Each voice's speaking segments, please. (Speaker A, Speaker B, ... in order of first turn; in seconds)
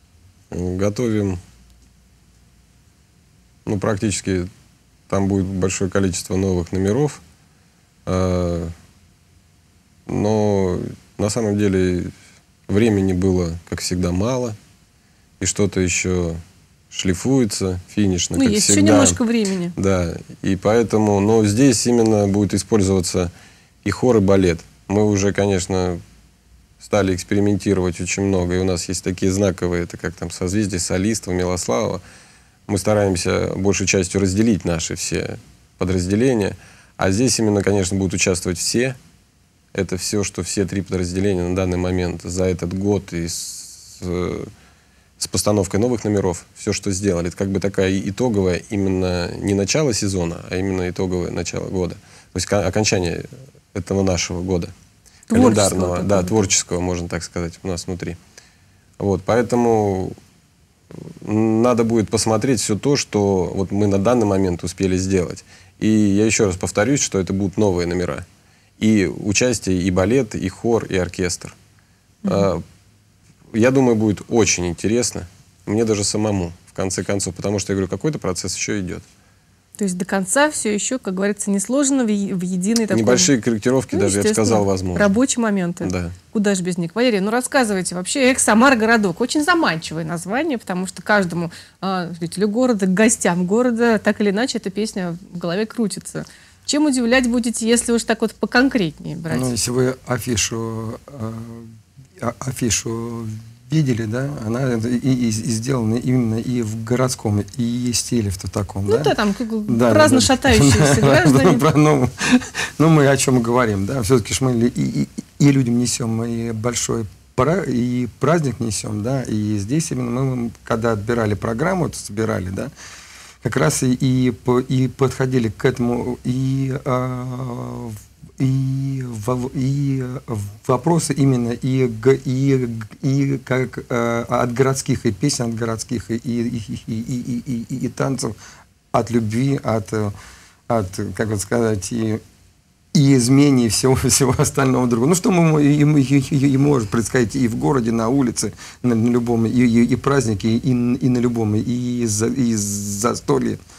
Speaker A: 0.5-1.4, 3.6-4.5, 5.1-7.2, 8.1-8.7, 10.1-12.1, 12.7-14.6, 15.4-16.4, 16.9-19.2, 19.8-23.3, 23.8-26.0, 26.8-32.0, 32.7-39.0, 39.7-44.5, 45.2-54.7, 55.3-58.2, 59.0-60.1, 60.9-68.2, 68.8-71.5, 72.2-72.6, 73.5-79.0, 82.9-85.1, 85.8-86.2
Speaker B: 18.3-19.7, 55.3-56.4, 72.2-72.5, 79.8-83.3, 83.9-99.5, 108.9-111.6
Speaker C: 99.3-109.1, 109.7-122.7, 123.4-138.4, 138.9-140.1, 140.7-142.2, 142.9-153.6